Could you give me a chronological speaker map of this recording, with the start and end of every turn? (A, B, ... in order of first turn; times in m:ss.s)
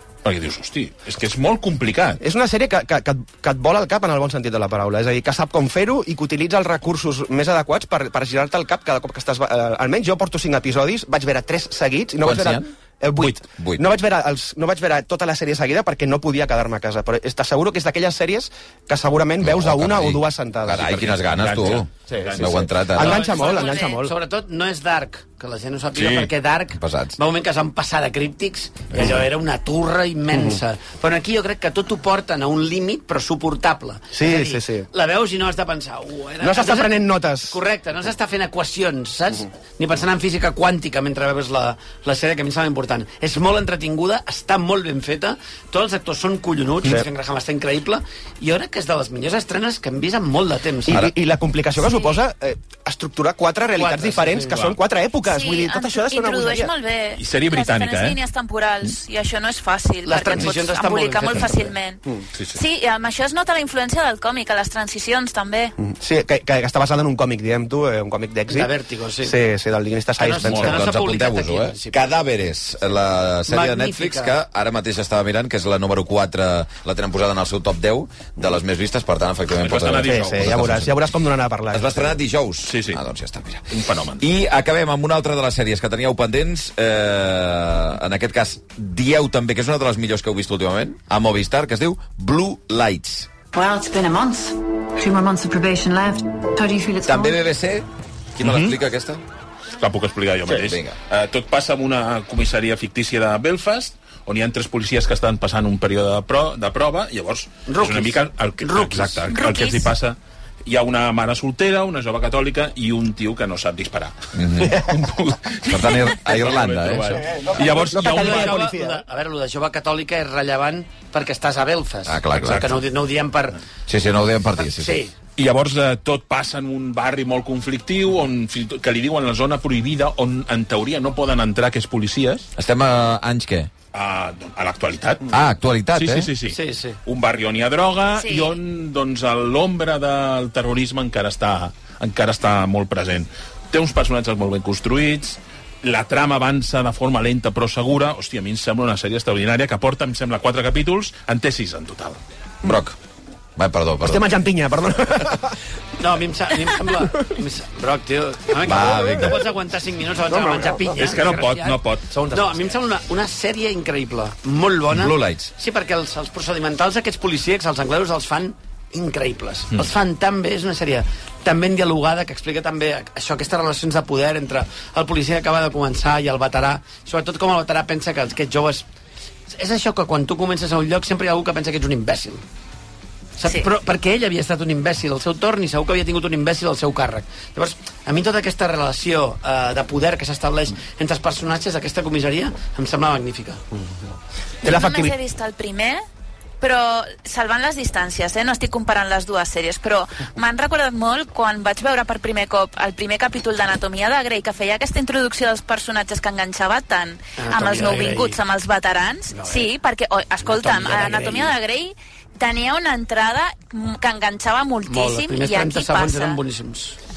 0:00.2-0:02.2 A
0:02.2-0:21.1 B
0:12.2-0:12.7 C
0:13.2-0:13.9 C
0:19.4-0:23.3 C
0:20.9-0:22.8 A
0:22.1-0:24.1 B
0:23.0-0:51.0 D
0:23.2-0:24.0 E
0:26.0-0:27.2 C
0:34.1-0:34.9 B
0:36.4-0:37.6 B
0:50.9-0:56.7 B
0:51.8-0:52.2 E
0:53.8-0:54.8 D
0:55.2-1:05.8 E
0:57.2-0:58.2 A
1:00.0-1:01.7 D
1:05.8-1:08.7 B
1:08.5-1:09.4 D
1:09.2-1:10.9 B
1:10.2-1:12.1 D
1:10.5-1:21.0 C
1:13.5-1:14.4 D
1:19.6-1:20.6 A
1:20.0-1:22.2 B
1:21.7-1:23.6 C
1:22.7-1:23.0 A
1:23.7-1:24.3 A
1:24.2-1:33.3 C
1:33.5-1:37.4 F
1:37.0-1:39.2 C
1:38.4-1:38.8 A
1:39.8-1:58.6 A
1:40.5-1:41.0 C
1:47.7-1:49.2 D
1:49.3-1:49.9 E
1:54.4-1:55.0 C
1:55.6-1:57.3 C
1:57.5-1:59.0 B
1:57.8-2:03.6 D
2:02.1-2:02.8 C
2:02.4-2:02.8 A
2:03.9-2:05.0 C
2:04.8-2:05.1 D
2:05.4-2:12.5 A
2:12.6-2:13.7 C
2:13.9-2:15.4 A
2:15.3-2:16.3 C
2:15.9-2:32.2 A
2:16.5-2:17.0 D
2:18.2-2:18.5 E
2:32.6-2:33.0 C
2:33.6-2:34.3 C
2:34.0-2:35.6 B
2:36.0-2:58.9 D
2:38.6-2:39.5 C
2:40.3-2:41.0 B
2:41.0-2:42.1 A
2:42.1-2:42.6 B
2:44.9-2:45.5 C
2:59.5-3:02.4 D
3:03.4-3:13.6 D
3:14.6-3:15.2 B
3:14.6-3:16.0 E
3:16.6-3:36.4 E
3:27.4-3:28.4 D
3:29.3-3:29.7 D
3:30.4-3:31.6 D
3:34.9-3:37.0 D